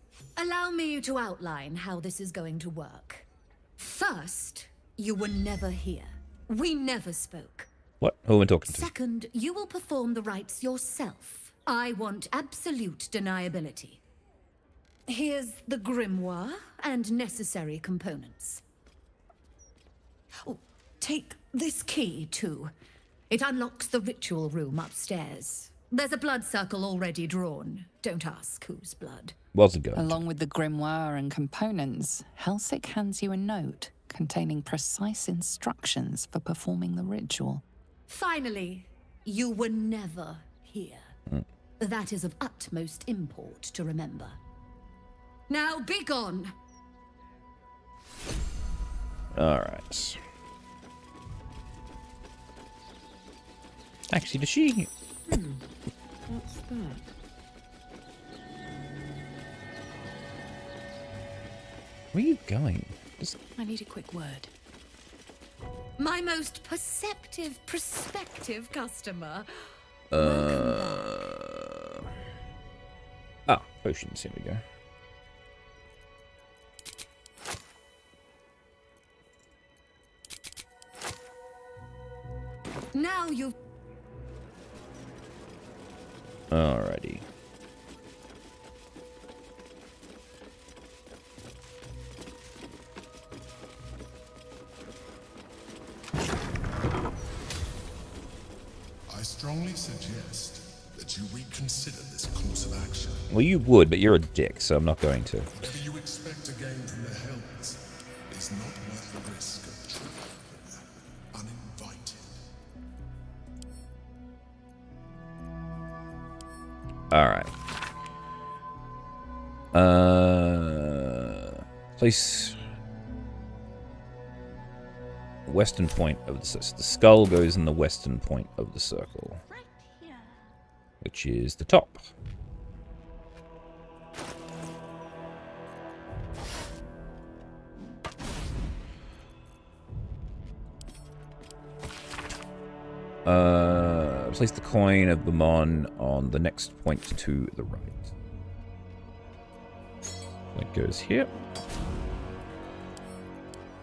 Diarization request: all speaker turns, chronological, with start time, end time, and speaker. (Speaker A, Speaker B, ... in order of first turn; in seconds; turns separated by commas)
Speaker A: 0.4-3.3, Speaker A: 3.8-7.7, Speaker B: 8.0-8.9, Speaker A: 8.7-14.0, Speaker A: 15.1-18.6, Speaker A: 20.4-22.7, Speaker A: 23.3-29.4, Speaker B: 29.5-30.2, Speaker C: 29.9-37.6, Speaker A: 38.1-41.2, Speaker A: 41.8-44.4, Speaker A: 45.5-46.5, Speaker B: 49.3-50.2, Speaker B: 54.1-54.9, Speaker D: 55.3-55.6, Speaker D: 56.3-57.0, Speaker B: 62.1-63.4, Speaker D: 63.6-64.5, Speaker A: 66.0-71.0, Speaker B: 70.1-72.0, Speaker B: 73.5-74.6, Speaker A: 82.9-83.6, Speaker B: 86.5-87.2, Speaker E: 99.1-103.2, Speaker B: 103.3-105.5, Speaker E: 105.6-112.5, Speaker B: 117.1-117.5, Speaker B: 119.7-122.6, Speaker B: 125.5-129.4, Speaker B: 131.0-132.0, Speaker B: 143.2-148.1, Speaker B: 150.6-151.3